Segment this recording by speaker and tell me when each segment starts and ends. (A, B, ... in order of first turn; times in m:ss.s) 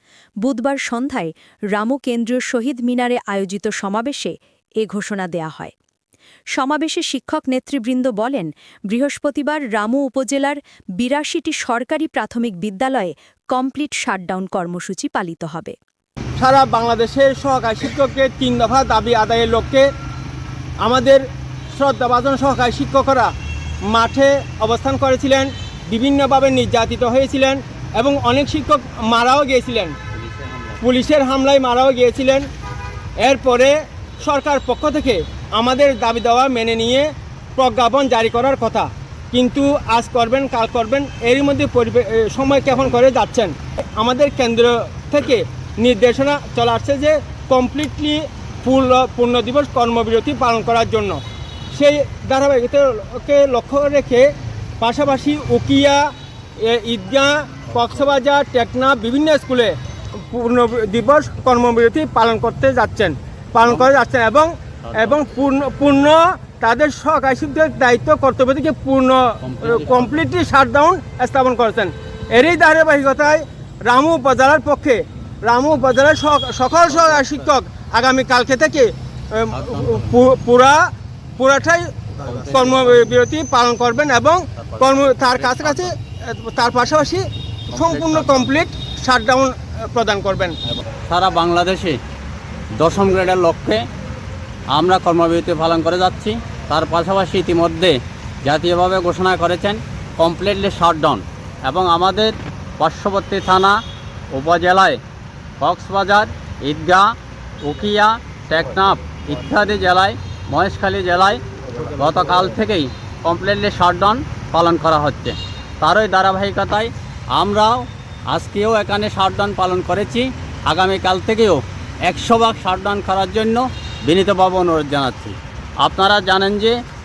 0:00.4-0:05.8 A
0:06.5-0:15.8 A
0:16.4-0:19.9 B
0:20.8-0:23.3 B
0:23.9-0:30.0 B
0:30.2-0:30.8 C
0:30.8-0:32.5 B
0:33.2-0:51.2 B
0:51.7-0:56.1 B
0:56.6-1:20.9 B
1:03.6-1:03.9 C
1:04.8-1:05.2 C
1:09.4-1:10.2 C
1:19.6-1:20.1 C
1:21.4-1:30.6 B
1:24.8-1:25.9 C
1:27.8-1:28.4 C
1:31.1-1:32.0 C
1:32.8-1:33.8 C
1:34.7-1:43.8 C
1:44.3-1:45.0 C
1:45.6-1:47.1 C
1:47.6-1:57.8 C
1:58.3-2:06.8 C